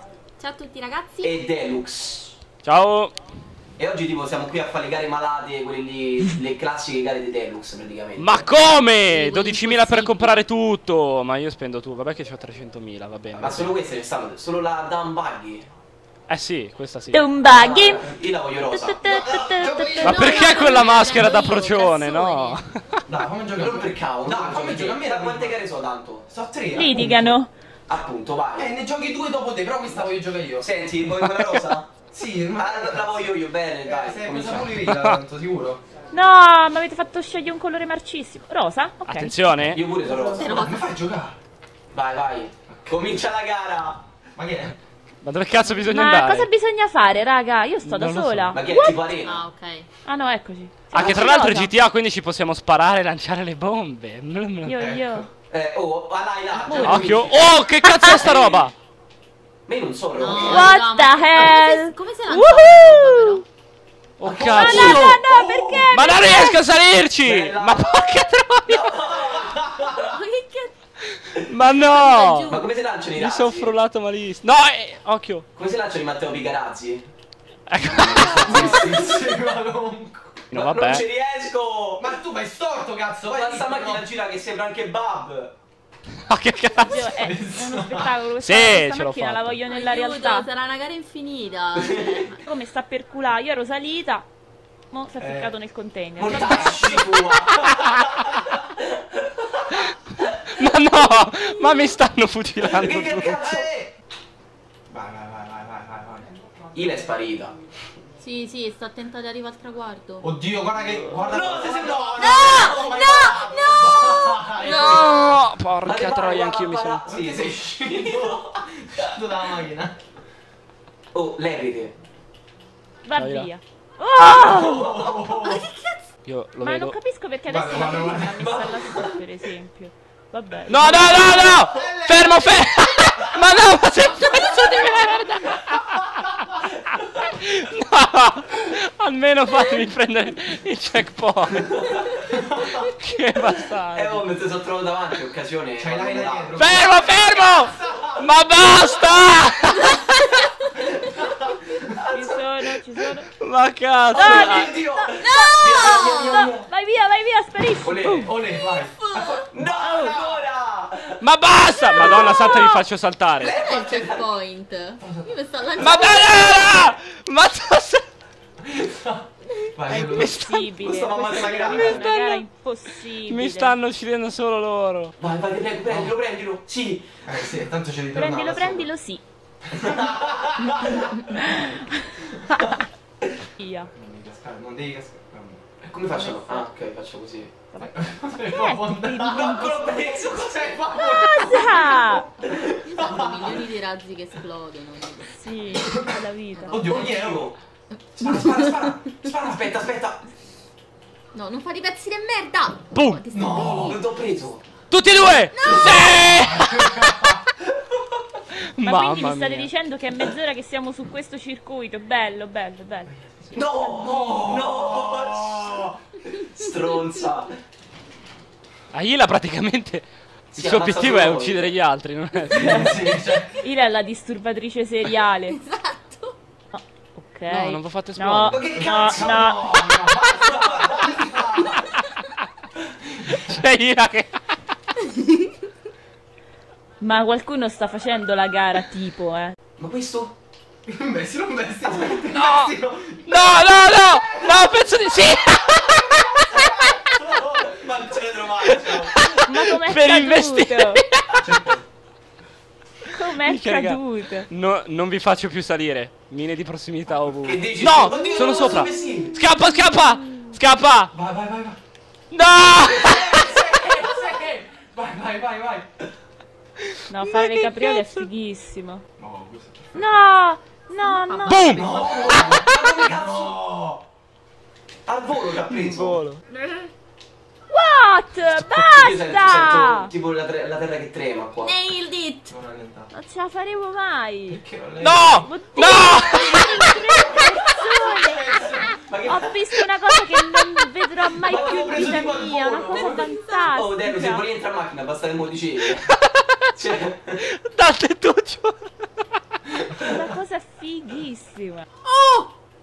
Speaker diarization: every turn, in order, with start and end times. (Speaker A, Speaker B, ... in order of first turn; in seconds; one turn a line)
Speaker A: 0.4-1.3
Speaker B: 1.2-2.3
Speaker C: 2.6-3.1
Speaker B: 3.8-8.5
Speaker C: 8.2-13.7
Speaker A: 9.1-10.4
Speaker B: 13.3-15.7
Speaker C: 16.3-17.2
Speaker D: 17.1-18.1
Speaker B: 17.4-19.2
Speaker D: 18.7-20.7
Speaker E: 19.0-20.3
Speaker A: 20.0-22.6
Speaker C: 20.0-22.8
Speaker E: 23.1-25.6
Speaker B: 23.5-26.3
Speaker E: 26.3-27.4
Speaker D: 26.7-27.5
Speaker B: 27.9-28.7
Speaker E: 28.6-30.7
Speaker B: 30.6-31.9
Speaker C: 31.2-31.6
Speaker E: 32.1-33.3
Speaker B: 32.5-34.7
Speaker E: 33.8-35.8
Speaker C: 34.8-35.2
Speaker D: 36.1-39.4
Speaker C: 39.1-39.8
Speaker B: 39.7-40.5
Speaker D: 40.0-40.4
Speaker A: 40.4-40.8
Speaker E: 40.4-41.4
Speaker B: 41.9-44.0
Speaker E: 42.7-43.1
Speaker E: 44.4-44.8
Speaker C: 45.2-46.5
Speaker D: 45.9-49.0
Speaker C: 47.8-48.6
Speaker B: 48.5-49.5
Speaker A: 49.1-49.9
Speaker D: 50.0-51.7
Speaker C: 50.9-54.8
Speaker D: 54.6-55.3
Speaker E: 54.8-55.3
Speaker B: 55.5-57.5
Speaker E: 56.5-57.4
Speaker D: 56.6-58.5
Speaker C: 56.8-58.7
Speaker B: 59.7-60.8
Speaker A: 60.2-63.4
Speaker D: 60.3-63.4
Speaker C: 64.2-65.2
Speaker B: 64.2-65.0
Speaker E: 64.3-65.9
Speaker D: 64.4-66.7
Speaker C: 65.9-68.9
Speaker B: 67.2-68.1
Speaker B: 68.7-70.0
Speaker A: 69.9-70.7
Speaker C: 71.1-72.5
Speaker A: 71.8-72.7
Speaker B: 72.5-73.7
Speaker C: 73.1-75.4
Speaker B: 75.5-77.0
Speaker C: 77.7-78.7
Speaker B: 77.9-79.4
Speaker E: 78.4-80.4
Speaker C: 80.5-81.0
Speaker B: 80.5-82.1
Speaker E: 82.0-84.1
Speaker B: 83.3-85.5
Speaker C: 86.3-87.1
Speaker D: 86.8-90.5
Speaker E: 87.2-88.2
Speaker C: 88.4-89.6
Speaker A: 89.7-92.4
Speaker B: 91.7-92.2
Speaker D: 92.4-94.3
Speaker D: 94.9-97.0
Speaker E: 95.2-95.5
Speaker B: 96.2-100.3
Speaker E: 96.3-97.0
Speaker C: 100.5-103.4
Speaker B: 102.6-103.7
Speaker E: 103.4-103.9
Speaker E: 104.9-106.3
Speaker B: 106.7-107.5
Speaker A: 108.2-110.3
Speaker E: 110.2-115.2
Speaker B: 111.2-113.2
Speaker A: 112.2-115.1
Speaker C: 114.6-117.0
Speaker B: 115.8-119.4
Speaker E: 117.0-120.0
Speaker B: 121.1-121.9
Speaker D: 123.0-125.0
Speaker C: 123.1-123.5
Speaker B: 124.3-125.2
Speaker E: 124.4-125.7
Speaker A: 125.4-125.7
Speaker C: 126.2-127.0
Speaker D: 126.6-131.6
Speaker E: 127.5-128.6
Speaker B: 128.3-129.2
Speaker C: 130.7-136.0
Speaker E: 130.8-133.4
Speaker A: 134.2-135.4
Speaker B: 136.9-137.3
Speaker C: 137.2-141.7
Speaker B: 141.6-142.2
Speaker E: 142.3-142.8
Speaker C: 142.8-144.2
Speaker B: 143.9-146.8
Speaker E: 145.8-148.3
Speaker C: 146.5-150.2
Speaker A: 149.9-150.5
Speaker B: 150.9-152.4
Speaker D: 152.1-153.3
Speaker C: 153.4-154.7
Speaker D: 154.1-158.3
Speaker B: 154.1-156.7
Speaker A: 155.2-156.5
Speaker B: 157.8-158.3
Speaker E: 158.2-160.5
Speaker A: 158.7-159.5
Speaker B: 159.5-161.2
Speaker D: 159.8-160.2
Speaker C: 161.2-163.6
Speaker B: 161.9-162.8
Speaker B: 163.4-164.3
Speaker A: 163.6-166.9
Speaker E: 165.0-165.3
Speaker C: 165.8-168.1
Speaker E: 168.6-170.4
Speaker C: 169.9-170.7
Speaker D: 169.9-173.7
Speaker B: 170.8-172.1
Speaker C: 171.5-172.4
Speaker C: 173.2-175.1
Speaker B: 175.2-177.2
Speaker E: 175.9-176.1
Speaker E: 177.2-178.5
Speaker D: 178.1-179.2
Speaker B: 178.3-178.9
Speaker E: 179.7-181.1
Speaker B: 179.8-181.1
Speaker D: 181.3-182.5
Speaker D: 183.6-183.9
Speaker E: 183.9-185.6
Speaker B: 185.8-187.5
Speaker D: 186.1-186.7
Speaker D: 187.7-190.1
Speaker E: 187.9-193.7
Speaker B: 189.3-191.0
Speaker D: 190.9-192.2
Speaker A: 192.7-195.4
Speaker D: 195.4-196.9
Speaker E: 195.8-196.2
Speaker A: 196.6-197.0
Speaker E: 196.7-197.5
Speaker B: 196.7-197.6
Speaker E: 198.2-199.7
Speaker A: 198.2-198.9
Speaker B: 199.4-200.2
Speaker A: 201.3-204.0
Speaker C: 202.9-203.2
Speaker E: 203.3-204.0
Speaker B: 203.8-204.6
Speaker C: 204.9-207.1
Speaker A: 205.5-206.3
Speaker E: 205.8-207.4
Speaker C: 208.8-209.7
Speaker D: 208.8-213.1
Speaker B: 213.5-217.6
Speaker E: 213.9-215.9
Speaker C: 218.9-222.9
Speaker B: 220.5-221.7
Speaker D: 222.5-225.6
Speaker E: 222.6-223.5
Speaker A: 225.5-226.4
Speaker D: 226.7-229.9
Speaker C: 227.5-228.7
Speaker B: 228.5-229.5
Speaker E: 228.6-231.8
Speaker B: 230.3-231.7
Speaker C: 233.3-234.4
Speaker A: 235.1-235.5
Speaker D: 237.0-239.6
Speaker B: 239.8-240.3
Speaker E: 240.9-244.7
Speaker C: 242.3-242.7
Speaker C: 243.2-247.0
Speaker E: 247.0-248.9
Speaker B: 247.5-249.1
Speaker C: 248.7-251.4
Speaker D: 249.4-251.0
Speaker E: 251.4-251.8
Speaker D: 253.1-254.5
Speaker C: 253.4-261.1
Speaker B: 257.4-259.4
Speaker E: 261.1-261.8
Speaker C: 262.3-263.5
Speaker E: 263.0-265.9
Speaker C: 266.9-268.2
Speaker D: 267.1-269.0
Speaker E: 269.2-270.0
Speaker D: 269.9-271.8
Speaker A: 270.9-272.6
Speaker C: 271.4-271.9
Speaker E: 271.8-274.0
Speaker B: 271.9-273.6
Speaker B: 275.1-276.2
Speaker C: 275.7-276.4
Speaker A: 276.5-276.9
Speaker D: 277.7-280.1
Speaker C: 278.6-278.9
Speaker B: 278.9-281.8
Speaker A: 281.6-282.5
Speaker E: 282.5-283.1
Speaker D: 283.1-284.6
Speaker E: 284.5-285.4
Speaker C: 285.0-286.8
Speaker D: 285.3-294.4
Speaker E: 287.2-289.0
Speaker B: 289.0-289.5
Speaker E: 291.4-293.3
Speaker B: 291.5-292.2
Speaker A: 292.2-293.7
Speaker B: 293.7-296.1
Speaker C: 296.1-296.7
Speaker B: 296.7-297.4
Speaker C: 297.4-299.2
Speaker D: 300.0-301.9
Speaker A: 302.0-302.5